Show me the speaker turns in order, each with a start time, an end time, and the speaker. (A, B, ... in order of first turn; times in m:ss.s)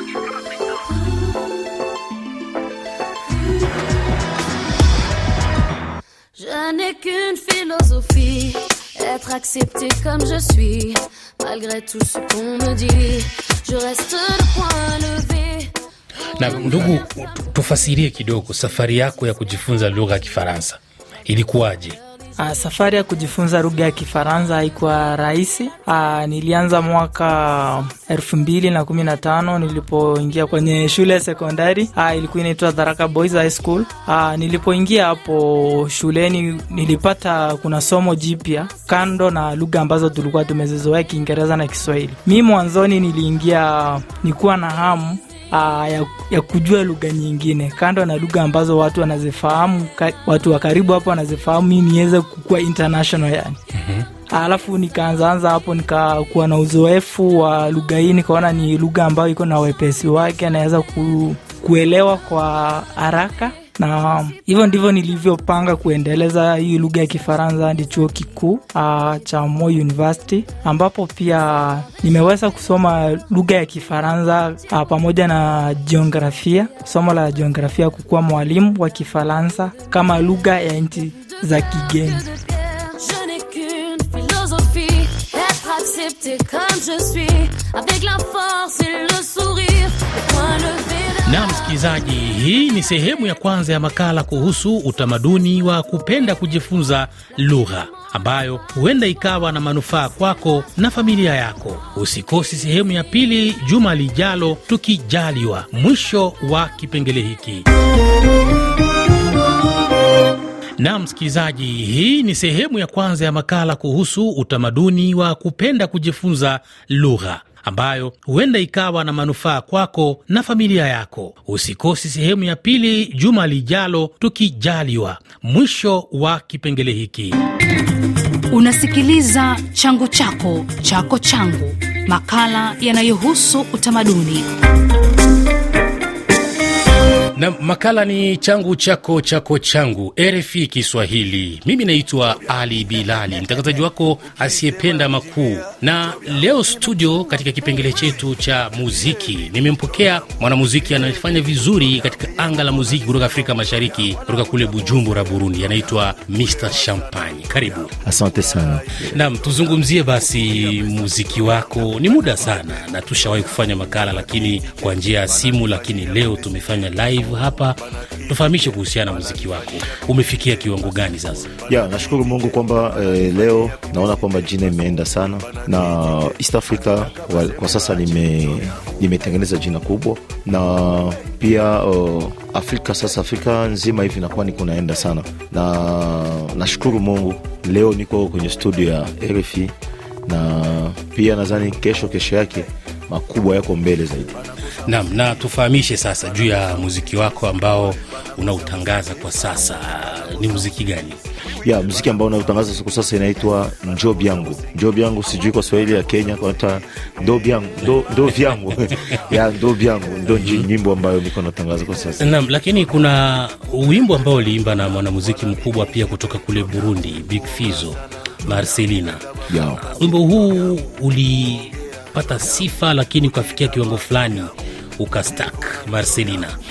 0:06.4-0:15.7 A
0:16.4-0:22.0 B
0:22.4-0:53.6 C
0:53.8-0:54.0 B
0:54.3-1:22.3 C
1:22.4-1:31.5 A
1:31.2-1:47.7 B
1:50.8-2:07.4 B
2:08.5-2:14.5 D
2:17.4-2:37.9 B
2:38.0-2:39.1 E
2:39.0-2:51.5 B
2:51.6-3:09.7 E
3:10.3-3:14.4 E
3:14.8-3:21.2 B
3:21.6-3:32.3 E
3:30.4-3:30.7 B
3:32.2-3:39.2 B
3:39.5-3:39.8 E
3:39.8-3:46.5 B